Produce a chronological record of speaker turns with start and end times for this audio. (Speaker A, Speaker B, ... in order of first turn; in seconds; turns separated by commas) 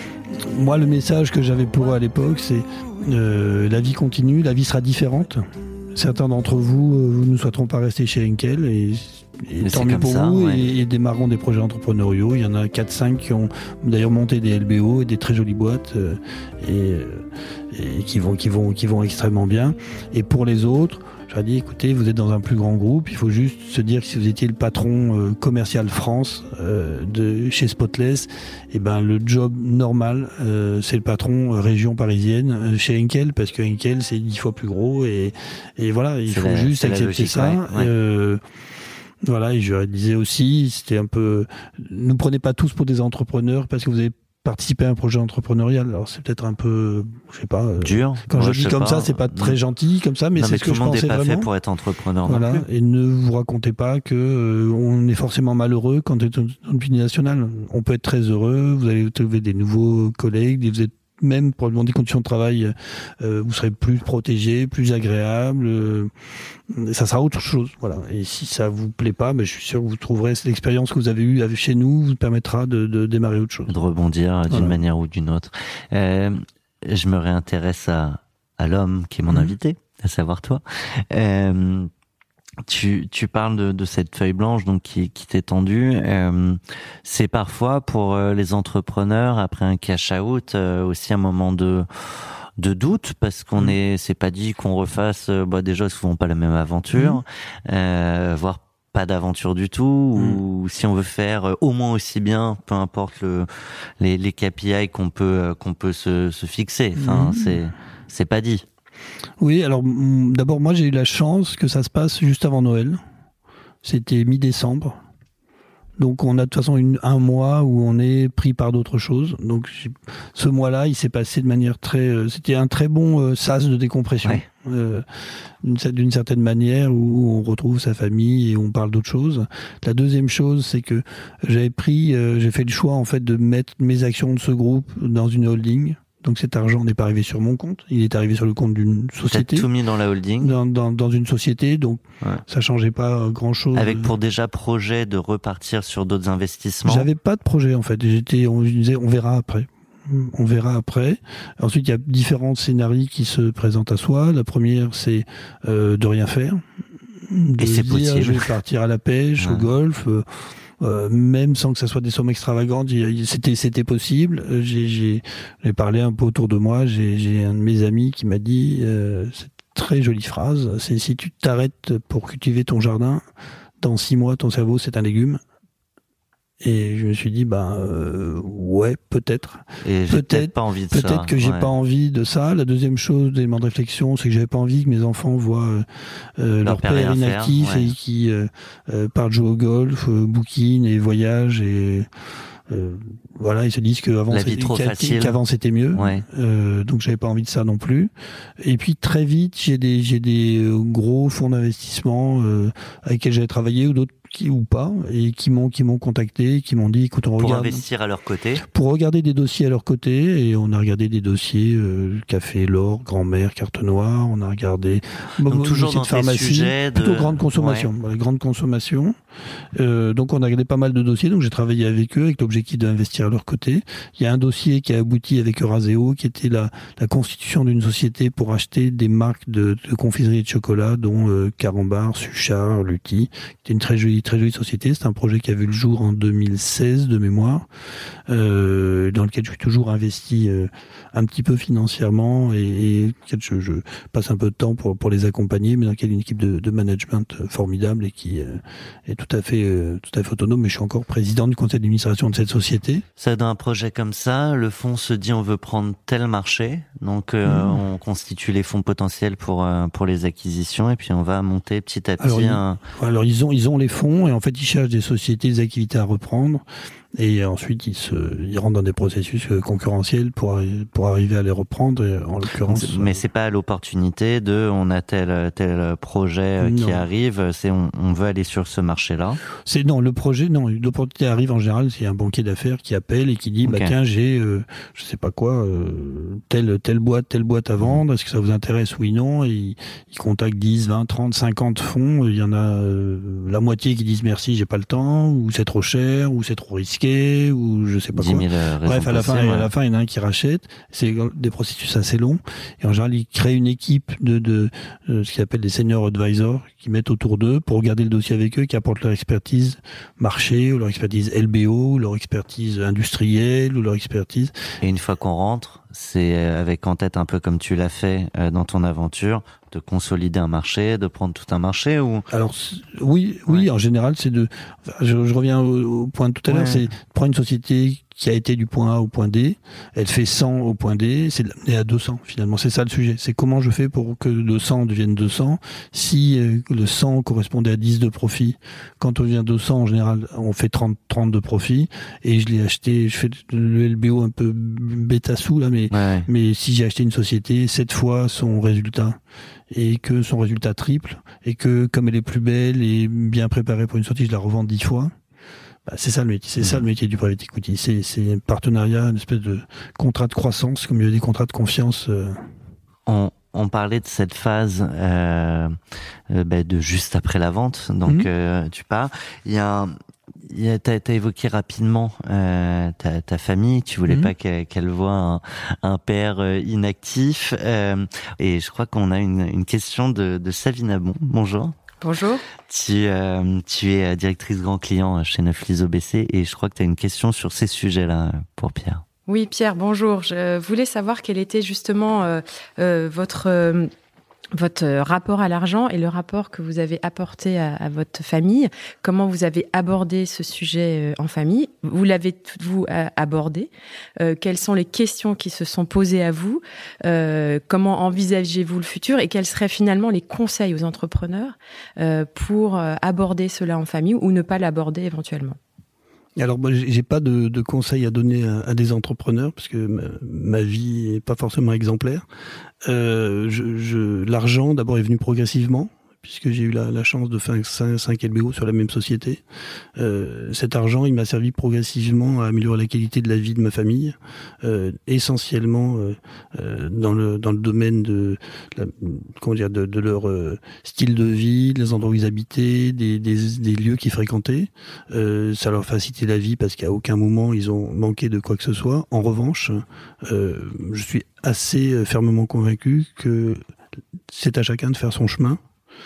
Speaker A: 0.3-38.4, Speaker B: 9.6-10.7, Speaker B: 36.3-37.9, Speaker A: 39.3-51.5, Speaker B: 47.8-49.6, Speaker B: 50.4-52.6, Speaker A: 52.3-66.1, Speaker A: 66.7-73.8, Speaker B: 73.7-81.9, Speaker A: 74.5-74.8, Speaker A: 79.3-79.6, Speaker B: 82.7-103.5, Speaker A: 96.9-97.2, Speaker A: 100.2-100.4, Speaker B: 104.0-108.7, Speaker A: 107.0-107.6, Speaker A: 109.4-113.0, Speaker A: 113.8-115.0, Speaker A: 116.0-125.0, Speaker A: 125.6-139.7, Speaker B: 139.3-140.6, Speaker A: 140.4-144.1, Speaker B: 143.8-147.1, Speaker A: 146.9-156.6, Speaker A: 157.3-160.3, Speaker B: 157.6-158.5, Speaker B: 159.4-159.7, Speaker A: 160.8-173.2, Speaker A: 173.8-175.4, Speaker A: 176.6-185.9, Speaker B: 179.8-181.7, Speaker A: 186.4-192.1, Speaker B: 186.6-187.9, Speaker A: 192.7-207.8, Speaker B: 194.3-195.4, Speaker B: 195.9-196.3, Speaker B: 207.4-208.7, Speaker A: 208.7-219.2, Speaker B: 215.5-217.9, Speaker A: 219.8-237.7, Speaker A: 238.3-253.0, Speaker B: 253.2-262.8, Speaker A: 257.4-257.8, Speaker A: 262.2-266.6, Speaker A: 267.2-273.2, Speaker B: 272.7-279.4, Speaker A: 276.6-277.1, Speaker A: 279.6-314.6, Speaker B: 283.6-283.9, Speaker B: 298.2-299.7, Speaker B: 314.8-322.3, Speaker A: 322.3-349.2, Speaker B: 326.5-326.9, Speaker B: 345.9-346.3, Speaker A: 349.7-355.1, Speaker A: 355.9-362.4, Speaker B: 363.1-365.8, Speaker B: 366.3-369.9, Speaker B: 370.4-381.8, Speaker C: 382.0-382.4, Speaker B: 382.7-389.0, Speaker C: 389.3-393.9, Speaker C: 394.6-415.6, Speaker A: 416.4-422.2, Speaker A: 422.9-429.4, Speaker A: 430.0-453.6, Speaker A: 454.3-455.6